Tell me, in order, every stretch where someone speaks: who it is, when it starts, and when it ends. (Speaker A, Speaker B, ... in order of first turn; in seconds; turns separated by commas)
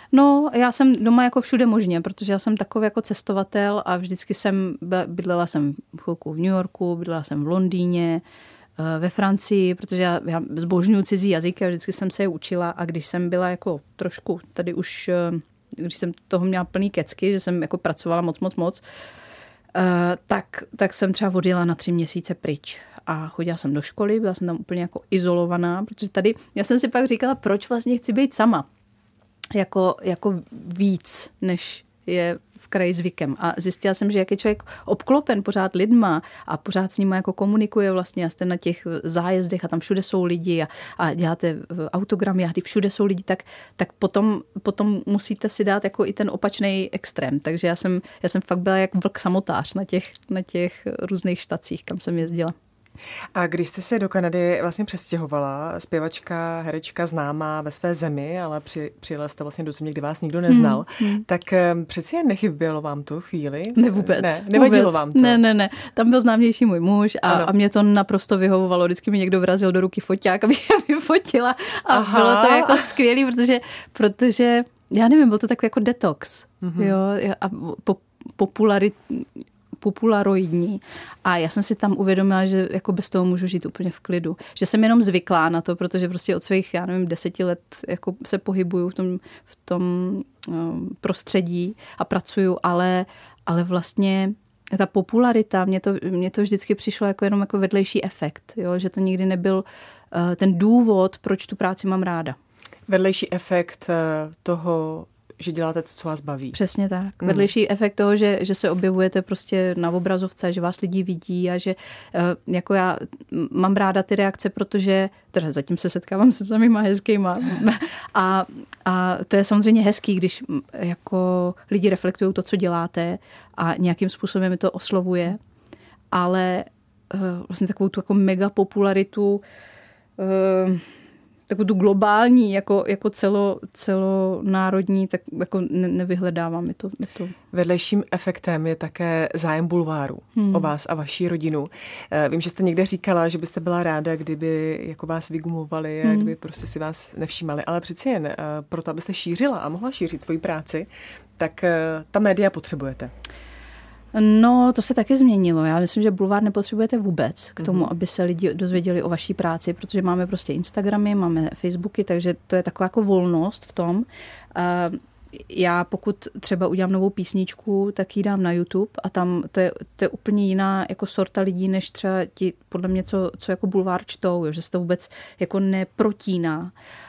Speaker A: 0.1-8.2, Speaker A: 8.8-18.8, Speaker A: 19.7-28.7, Speaker A: 29.5-52.5, Speaker B: 53.3-65.4, Speaker A: 60.5-61.2, Speaker A: 63.8-102.3, Speaker B: 71.9-72.9, Speaker B: 76.6-77.0, Speaker B: 102.9-106.6, Speaker A: 106.5-125.4, Speaker B: 107.2-107.5, Speaker A: 126.1-129.4, Speaker A: 130.2-130.8, Speaker A: 131.5-137.3, Speaker B: 137.5-153.1, Speaker A: 140.3-140.7, Speaker A: 146.0-146.3, Speaker A: 154.1-176.7, Speaker B: 157.6-157.9